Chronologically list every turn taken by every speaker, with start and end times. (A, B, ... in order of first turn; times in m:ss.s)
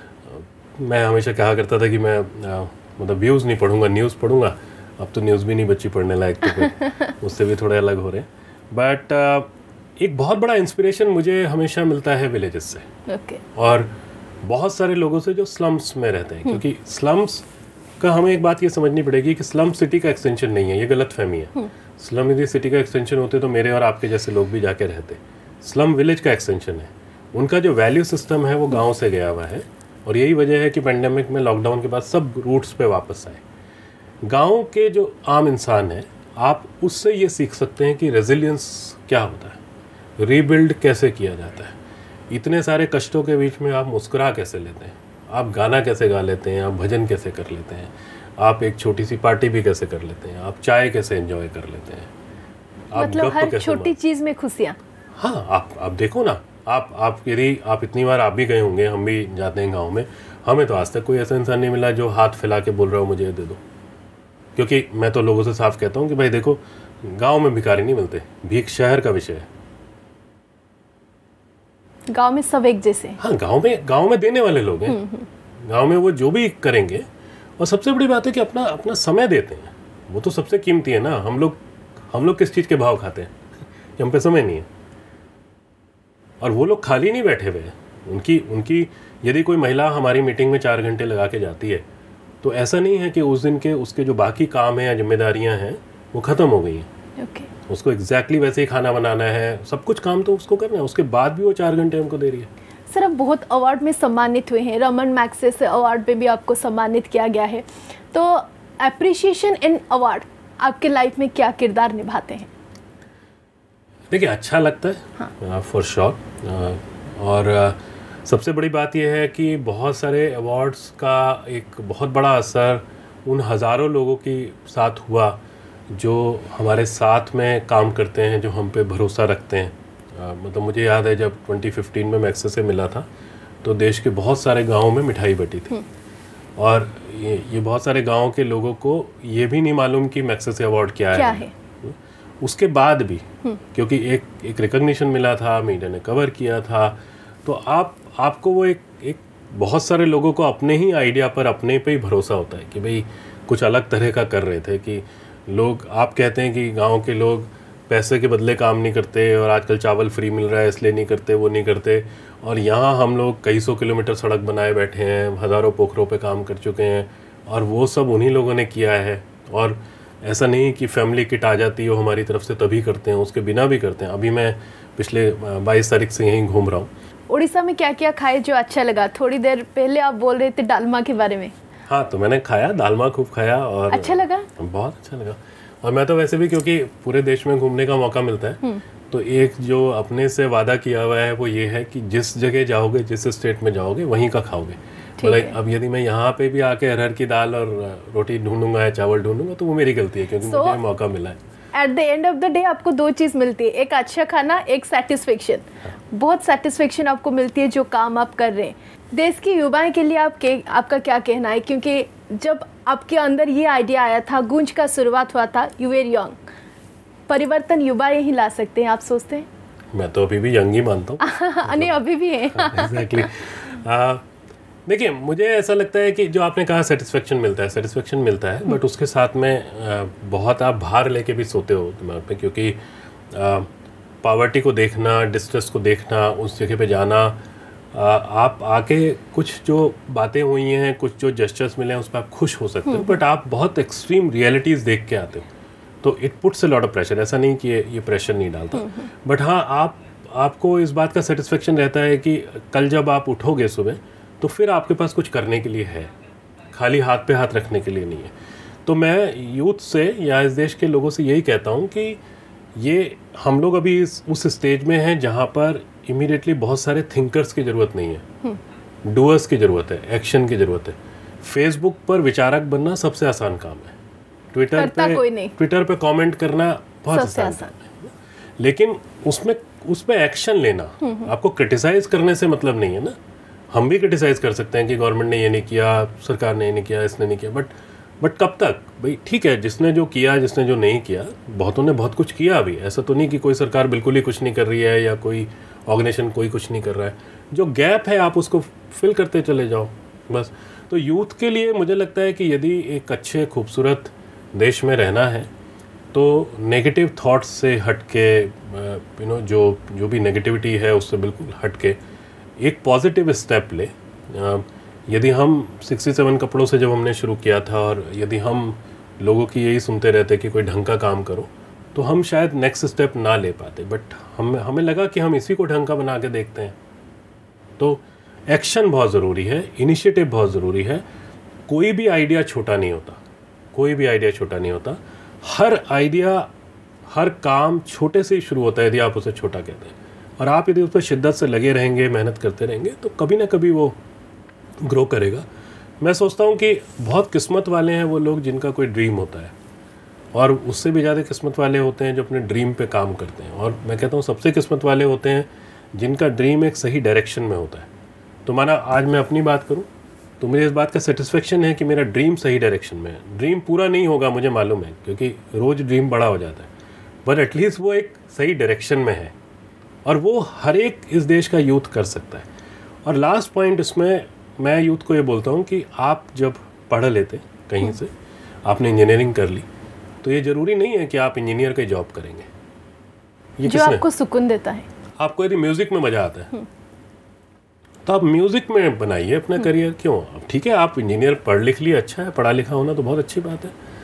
0:00.2-0:12.9 A
0:13.1-0:13.4 B
0:13.5-0:13.9 A
0:14.4-0:17.4 A
0:18.0-0:33.4 A
0:34.2-0:39.6 A
0:40.2-0:41.8 A
0:42.3-0:52.1 A
0:52.9-0:53.9 A
0:53.0-0:54.8 B
0:55.2-1:03.6 A
1:04.6-1:09.5 A
1:12.1-1:13.2 B
1:13.2-1:15.0 A
1:14.9-1:15.3 B
1:15.6-1:17.0 A
1:17.6-1:23.3 A
1:24.0-1:24.7 A
1:26.4-1:31.8 A
1:32.4-1:36.9 A
1:37.2-1:37.5 B
1:37.7-1:42.5 A
1:42.9-1:52.5 B
1:54.1-2:05.4 A
2:05.9-2:13.1 A
2:13.6-2:15.8 A
2:16.6-2:56.9 A
2:21.1-2:21.5 B
2:57.3-3:01.5 B
3:01.9-3:21.4 A
3:03.9-3:04.5 B
3:15.2-3:15.5 B
3:20.4-3:20.8 B
3:21.7-3:36.4 B
3:37.3-3:39.5 B
3:39.9-3:44.2 A
3:41.2-3:43.2 B
3:44.8-3:52.8 A
3:53.3-3:53.7 A
3:54.2-3:57.4 A
3:57.9-4:05.4 A
4:06.0-4:16.1 A
4:16.7-4:18.3 A
4:18.8-4:22.2 A
4:22.8-4:28.2 A
4:29.0-4:33.9 A
4:34.5-4:43.2 A
4:34.7-4:35.6 B
4:37.1-4:37.7 B
4:41.0-4:41.3 B
4:43.7-5:05.5 A
5:06.1-5:12.0 A
5:12.6-5:26.8 A
5:27.8-5:31.0 A
5:31.6-5:33.2 A
5:33.7-5:36.5 A
5:37.1-5:44.0 A
5:44.8-5:45.4 A
5:46.0-5:49.5 A
5:50.3-5:57.9 A
5:58.4-5:59.9 A
6:00.4-6:06.7 A
6:07.2-6:09.3 A
6:10.0-6:12.5 A
6:13.0-6:18.1 A
6:18.6-6:19.7 A
6:20.2-6:22.5 A
6:23.6-6:24.0 A
6:23.6-6:24.9 B
6:25.2-6:26.5 A
6:28.0-6:33.7 A